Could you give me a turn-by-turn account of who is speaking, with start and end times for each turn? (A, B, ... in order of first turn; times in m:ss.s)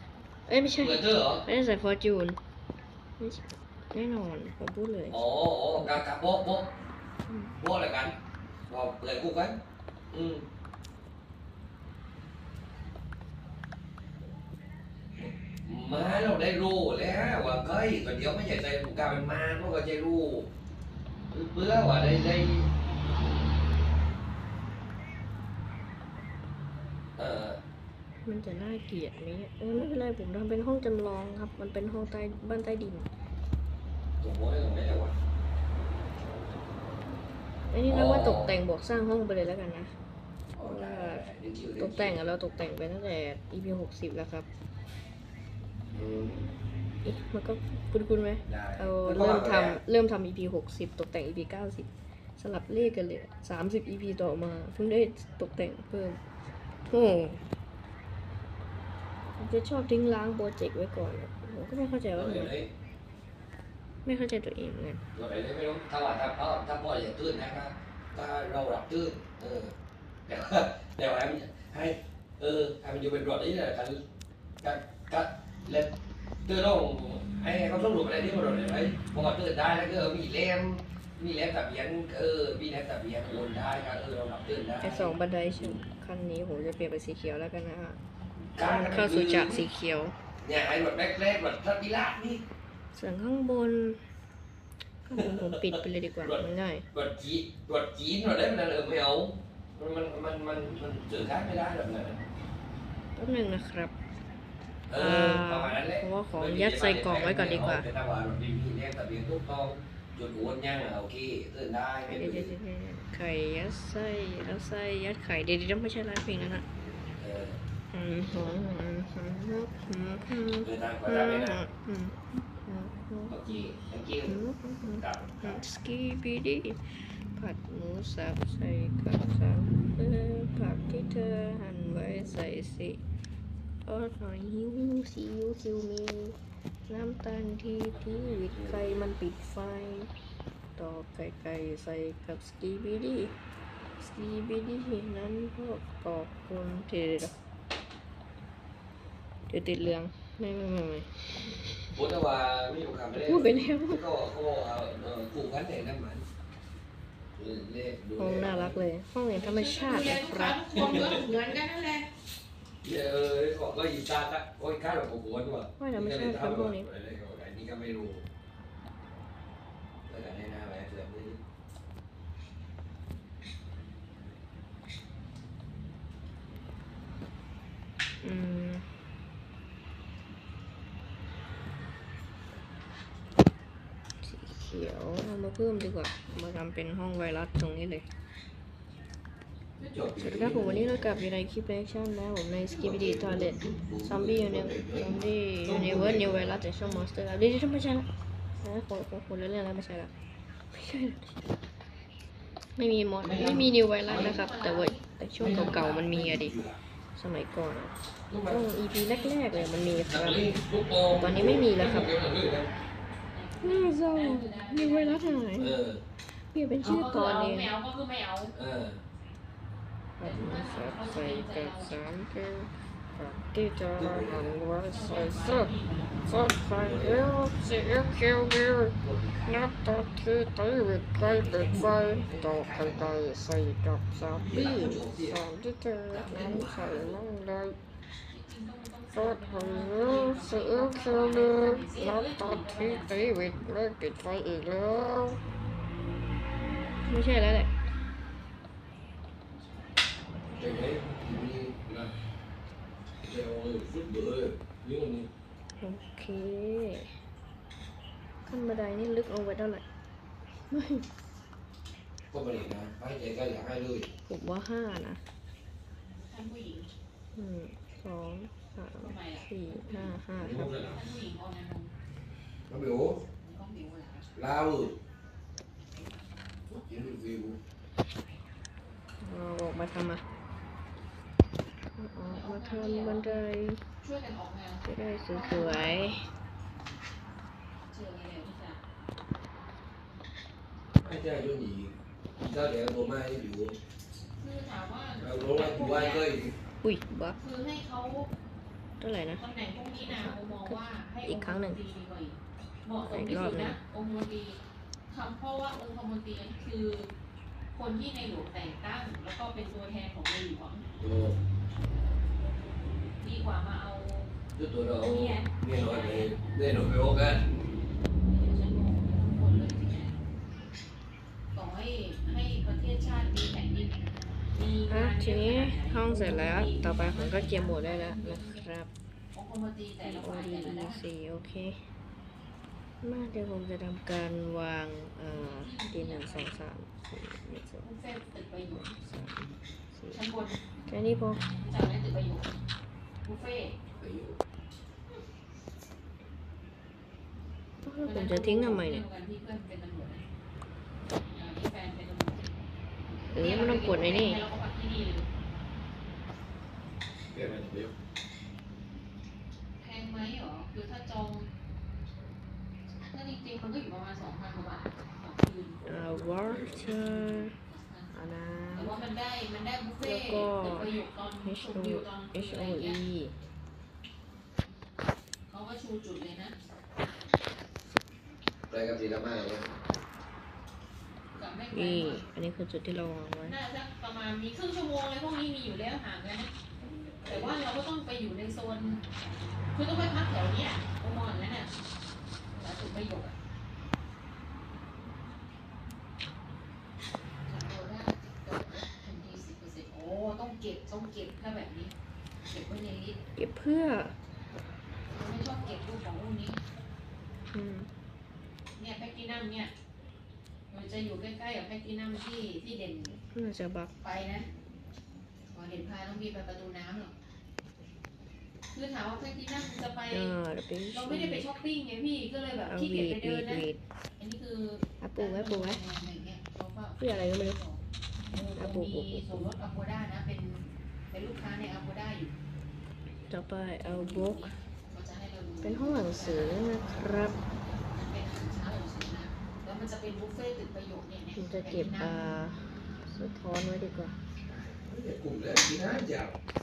0:00.5-0:02.4 A
0:00.8-0:01.4 B
0:03.2-0:05.2 A
0:05.1-0:06.7 B
0:05.8-0:06.0 A
0:07.3-0:07.5 A
0:07.6-0:08.1 B
0:08.7-0:09.6 B
0:10.1-0:10.4 B
0:15.2-0:20.5 B
0:21.3-0:22.7 B
0:27.2-0:27.6 B
0:28.2-0:33.0 A
0:34.2-0:35.1 B
0:37.7-0:39.9 A
0:37.9-0:38.5 B
0:40.5-0:42.2 B
0:40.6-0:41.2 A
0:41.8-0:44.5 A
0:45.9-0:46.5 B
0:47.0-0:56.2 A
0:48.4-0:49.8 B
0:56.9-0:57.4 A
0:59.4-1:02.5 A
1:02.1-1:02.7 B
1:04.0-1:05.0 A
1:05.1-1:09.7 B
1:10.3-1:14.0 B
1:14.6-1:15.9 B
1:16.4-1:25.8 B
1:24.8-1:28.0 A
1:28.6-1:29.6 B
1:28.6-1:30.1 A
1:30.4-1:32.4 B
1:32.9-1:34.0 A
1:35.0-1:36.8 A
1:35.1-1:42.2 B
1:43.2-1:43.9 A
1:44.9-1:52.5 B
1:45.0-1:47.8 A
1:52.0-1:56.6 A
1:57.2-1:57.6 B
1:57.9-2:03.4 A
2:00.6-2:01.6 B
2:03.3-2:05.6 B
2:04.3-2:13.0 A
2:13.9-2:16.4 A
2:16.9-2:20.1 A
2:18.5-2:18.8 B
2:20.8-2:23.3 A
2:24.0-2:27.3 A
2:29.5-2:31.2 A
2:31.9-2:36.2 B
2:33.2-2:34.0 A
2:37.4-2:38.8 B
2:38.2-2:41.1 A
2:39.3-2:42.1 C
2:40.7-2:41.2 B
2:42.8-2:48.2 B
2:45.8-2:46.8 A
2:50.1-2:51.4 B
2:58.2-2:58.8 A
3:04.2-3:08.0 A
3:09.8-3:11.2 B
3:10.2-3:18.1 A
3:12.6-3:16.6 B
3:16.8-3:17.1 C
3:18.6-3:20.1 A
3:20.7-3:21.3 A
3:22.8-3:26.5 A
3:23.2-3:24.4 B
3:24.0-3:25.0 C
3:25.4-3:26.8 B
3:27.2-3:27.9 A
3:28.3-3:28.6 B
3:28.5-3:30.4 A
3:29.0-3:29.8 C
3:30.0-3:32.7 B
3:31.1-3:32.1 A
3:33.3-3:35.6 C
3:33.6-3:35.8 A
3:35.6-3:36.0 B
3:36.5-3:37.7 A
3:36.8-3:38.5 C
3:38.5-3:39.0 B
3:40.2-3:45.7 A
3:40.2-3:42.0 C
3:44.0-3:44.6 B
3:44.9-3:46.4 C
3:46.2-3:48.9 A
3:46.7-3:47.3 B
3:49.0-3:49.7 B
3:49.5-3:57.8 A
3:51.2-3:53.2 B
3:54.2-3:55.4 B
3:56.1-3:57.2 B
3:58.3-4:03.6 C
3:59.1-4:05.4 A
4:07.1-4:07.7 A
4:10.5-4:12.1 B
4:13.2-4:15.3 B
4:15.8-4:17.1 A
4:18.4-4:19.8 A
4:20.7-4:21.0 A
4:22.3-4:24.1 B
4:24.3-4:25.2 A
4:26.1-4:26.9 C
4:27.3-4:30.8 A
4:29.0-4:31.9 C
4:30.4-4:31.0 B
4:32.7-4:33.2 B
4:33.4-4:34.3 C
4:34.3-4:35.0 B
4:36.7-4:37.6 B
4:39.2-4:40.2 A
4:42.0-4:43.8 A
4:42.2-4:43.4 C
4:44.0-4:46.2 C
4:44.9-4:46.2 A
4:47.9-4:48.8 C
4:51.0-4:53.8 B
4:54.4-4:56.2 C
4:55.2-4:56.5 B
4:56.8-4:57.4 A
4:57.4-4:58.3 C
4:59.0-4:59.4 A
4:59.4-5:07.1 C
5:00.0-5:01.8 A
5:03.0-5:03.8 A
5:07.7-5:10.8 C
5:11.0-5:11.4 B
5:13.2-5:14.3 C
5:14.6-5:17.5 B
5:15.0-5:16.3 C
5:18.3-5:20.2 C
5:21.5-5:24.0 C
5:24.5-5:28.7 C
5:24.9-5:28.9 A
5:29.3-5:31.0 C
5:30.0-5:31.8 A
5:33.0-5:37.8 A
5:35.2-5:36.6 C
5:37.8-5:38.9 C
5:38.7-5:40.2 A
5:40.1-5:40.6 C
5:40.9-5:41.4 A
5:41.6-5:42.5 C
5:43.2-5:43.8 C
5:43.9-5:44.4 B
5:47.8-5:49.0 A
5:48.0-5:50.2 C
5:51.3-5:52.5 C
5:53.3-5:54.4 A
5:53.4-5:55.3 C
5:57.3-5:57.9 B
5:59.8-6:01.5 C
6:03.0-6:08.1 C
6:05.8-6:07.5 A
6:06.3-6:07.1 B
6:08.1-6:09.0 A
6:08.7-6:13.0 C
6:10.0-6:13.3 A
6:15.5-6:16.5 C
6:18.7-6:19.7 B
6:21.3-6:22.3 C
6:21.7-6:23.6 A
6:23.4-6:26.5 C
6:26.8-6:27.6 B
6:27.2-6:29.0 C
6:29.7-6:31.7 C
6:32.5-6:33.4 C
6:37.5-6:41.9 C
6:42.5-6:43.2 C
6:43.4-6:44.2 A
6:45.1-6:46.6 C
6:47.5-6:47.9 A
6:48.8-6:49.7 C
6:50.7-6:53.2 C
6:53.3-6:53.9 A
6:54.0-6:54.5 C
6:55.5-6:57.1 C
6:58.7-7:00.3 C
7:00.1-7:01.5 A
7:00.9-7:03.6 C
7:02.7-7:03.8 A
7:04.2-7:07.8 C
7:05.0-7:05.8 A
7:07.0-7:07.6 A
7:08.3-7:12.3 C
7:08.6-7:09.4 A
7:13.3-7:14.5 A
7:13.8-7:22.1 C
7:15.6-7:17.4 A
7:21.4-7:24.1 A
7:24.4-7:26.4 B